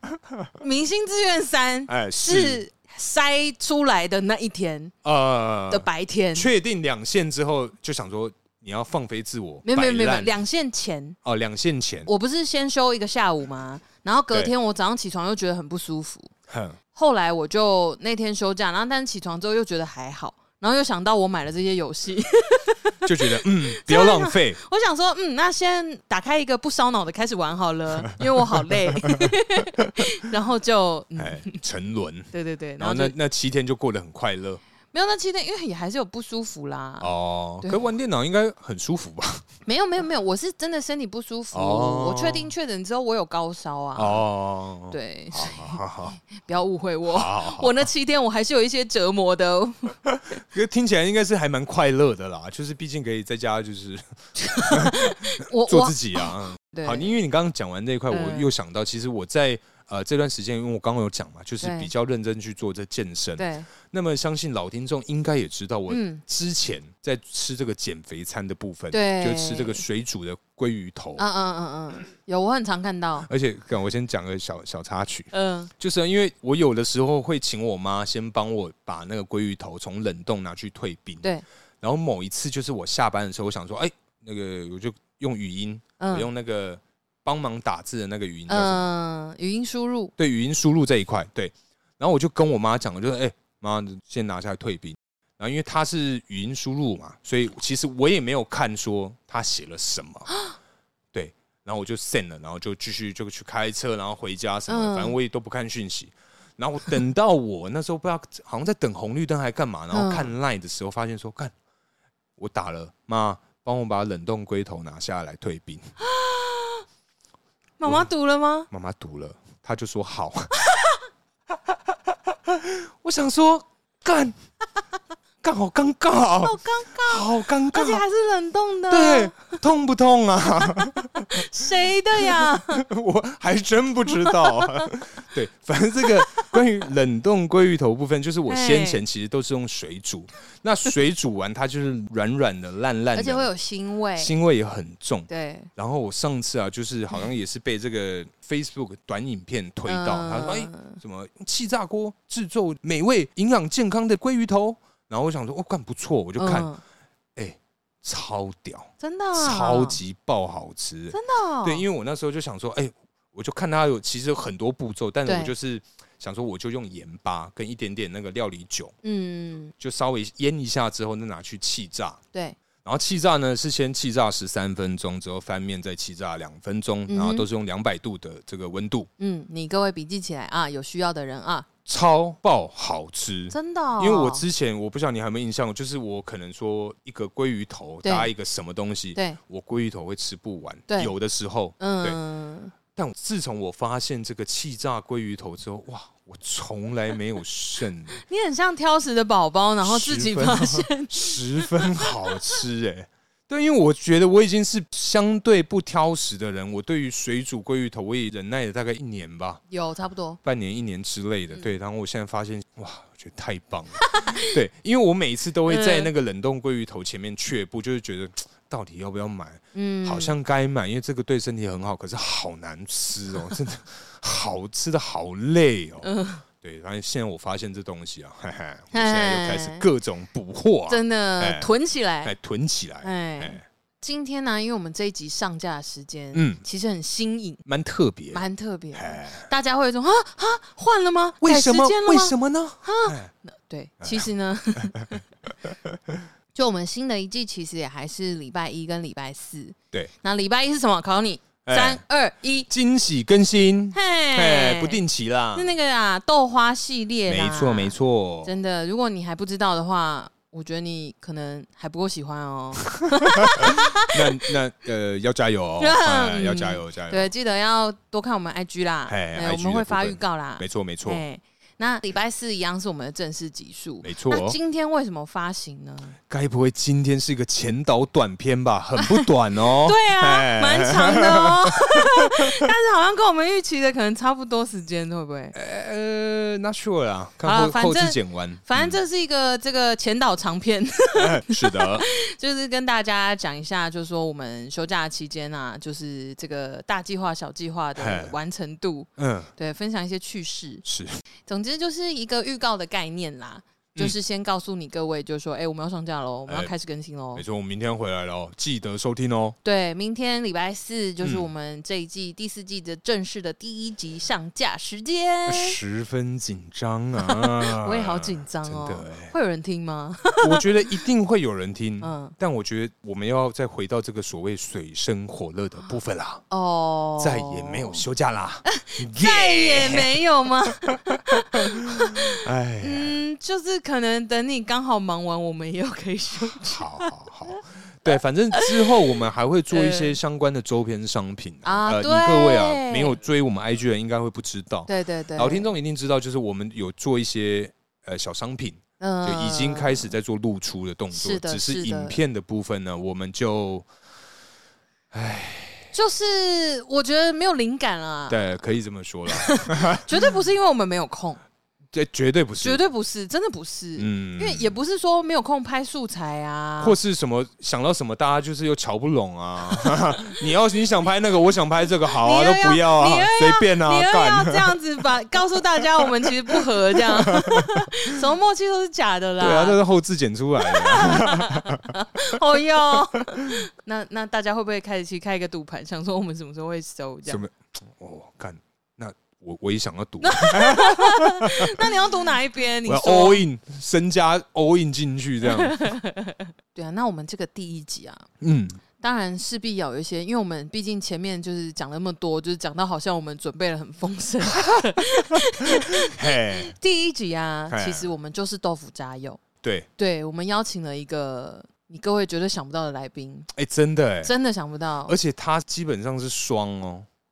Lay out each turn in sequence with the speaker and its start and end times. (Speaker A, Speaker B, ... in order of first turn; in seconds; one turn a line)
Speaker A: 0.6-4.9
Speaker B: 1.9-2.6
Speaker B: 5.0-10.3
Speaker A: 5.7-6.5
Speaker A: 9.7-11.2
Speaker B: 11.2-12.1
Speaker A: 12.1-16.3
Speaker B: 16.5-16.8
Speaker A: 16.9-31.6
Speaker B: 23.1-24.6
Speaker B: 28.1-29.3
Speaker B: 31.2-34.6
Speaker A: 32.3-33.1
Speaker A: 34.9-37.9
Speaker B: 37.0-39.5
Speaker A: 39.7-44.2
Speaker B: 41.5-42.5
Speaker B: 44.0-46.2
Speaker A: 44.9-50.0
Speaker B: 47.1-47.7
Speaker B: 50.1-71.2
Speaker A: 54.4-57.2
Speaker A: 58.1-58.5
Speaker A: 61.6-61.9
Speaker A: 63.4-63.7
Speaker A: 65.9-66.2
Speaker A: 68.9-69.8
Speaker A: 71.2-73.3
Speaker B: 73.3-81.2
Speaker A: 75.3-75.7
Speaker B: 81.8-88.8
Speaker A: 86.0-86.3
Speaker A: 88.5-90.1
Speaker B: 90.2-100.3
Speaker B: 101.1-111.5
Speaker A: 104.7-105.2
Speaker A: 109.9-110.3
Speaker B: 112.4-115.9
Speaker A: 116.0-116.8
Speaker A: 117.8-118.7
Speaker B: 118.7-120.5
Speaker A: 120.7-120.9
Speaker B: 121.7-124.4
Speaker B: 125.4-128.0
Speaker A: 126.4-129.6
Speaker B: 128.9-131.4
Speaker A: 130.6-132.8
Speaker B: 132.2-143.5
Speaker A: 134.2-134.9
Speaker A: 136.2-136.6
Speaker A: 138.5-139.0
Speaker A: 143.2-144.3
Speaker B: 144.2-156.7
Speaker A: 145.3-145.7
Speaker A: 149.9-151.0
Speaker A: 156.4-156.8
Speaker B: 157.4-168.9
Speaker A: 159.0-160.0
Speaker A: 161.1-161.9
Speaker A: 165.3-165.5
Speaker A: 169.0-169.7
Speaker B: 169.8-172.2
Speaker B: 172.8-179.1
Speaker A: 177.1-177.5
Speaker A: 179.2-181.7
Speaker B: 181.9-192.2
Speaker A: 183.5-184.4
Speaker A: 188.0-188.3
Speaker A: 191.8-192.7
Speaker B: 192.9-198.2
Speaker A: 198.2-202.3
Speaker B: 199.8-209.6
Speaker A: 209.7-210.4
Speaker B: 210.4-231.7
Speaker A: 214.0-214.6
Speaker A: 215.7-216.1
Speaker A: 219.7-220.3
Speaker A: 226.0-226.4
Speaker A: 228.9-229.8
Speaker A: 230.9-232.3
Speaker B: 232.2-233.6
Speaker A: 233.0-237.6
Speaker B: 236.3-236.6
Speaker B: 237.7-239.5
Speaker A: 238.3-245.2
Speaker B: 241.4-243.3
Speaker B: 244.0-244.3
Speaker B: 245.7-246.3
Speaker A: 246.5-252.7
Speaker B: 251.7-252.0
Speaker B: 252.7-255.7
Speaker A: 253.9-255.0
Speaker A: 255.5-264.2
Speaker B: 257.3-258.6
Speaker B: 262.9-267.3
Speaker A: 265.8-276.2
Speaker B: 269.1-271.2
Speaker B: 274.0-274.6
Speaker B: 276.3-282.6
Speaker A: 279.0-279.3
Speaker A: 279.8-285.6
Speaker B: 285.5-289.0
Speaker A: 287.4-300.8
Speaker B: 291.2-292.1
Speaker B: 298.0-298.4
Speaker B: 299.2-299.5
Speaker B: 300.9-301.2
Speaker A: 301.5-307.4
Speaker B: 307.4-309.6
Speaker A: 309.6-315.8
Speaker B: 311.2-311.5
Speaker B: 315.5-319.3
Speaker A: 317.2-320.6
Speaker B: 320.4-326.4
Speaker A: 322.0-322.4
Speaker A: 326.5-328.0
Speaker B: 327.2-330.1
Speaker A: 328.7-337.1
Speaker B: 332.0-333.2
Speaker B: 336.7-353.9
Speaker A: 338.5-339.2
Speaker A: 339.7-340.2
Speaker A: 341.6-343.2
Speaker A: 344.9-345.7
Speaker A: 349.0-350.1
Speaker A: 351.1-352.2
Speaker B: 355.1-355.9
Speaker A: 355.9-358.4
Speaker B: 358.3-360.1
Speaker A: 359.3-361.4
Speaker B: 361.9-362.8
Speaker A: 362.6-367.0
Speaker B: 364.0-364.8
Speaker B: 366.8-374.8
Speaker A: 372.2-379.8
Speaker B: 376.0-378.1
Speaker B: 379.4-381.9
Speaker A: 380.6-387.4
Speaker B: 387.3-391.9
Speaker A: 390.2-393.4
Speaker B: 392.9-395.9
Speaker A: 395.4-398.3
Speaker B: 398.4-398.8
Speaker A: 399.0-409.4
Speaker B: 406.1-406.7
Speaker B: 407.7-408.1
Speaker B: 409.6-409.9
Speaker A: 410.0-413.5
Speaker B: 413.5-414.3
Speaker A: 414.2-415.2
Speaker B: 415.1-417.1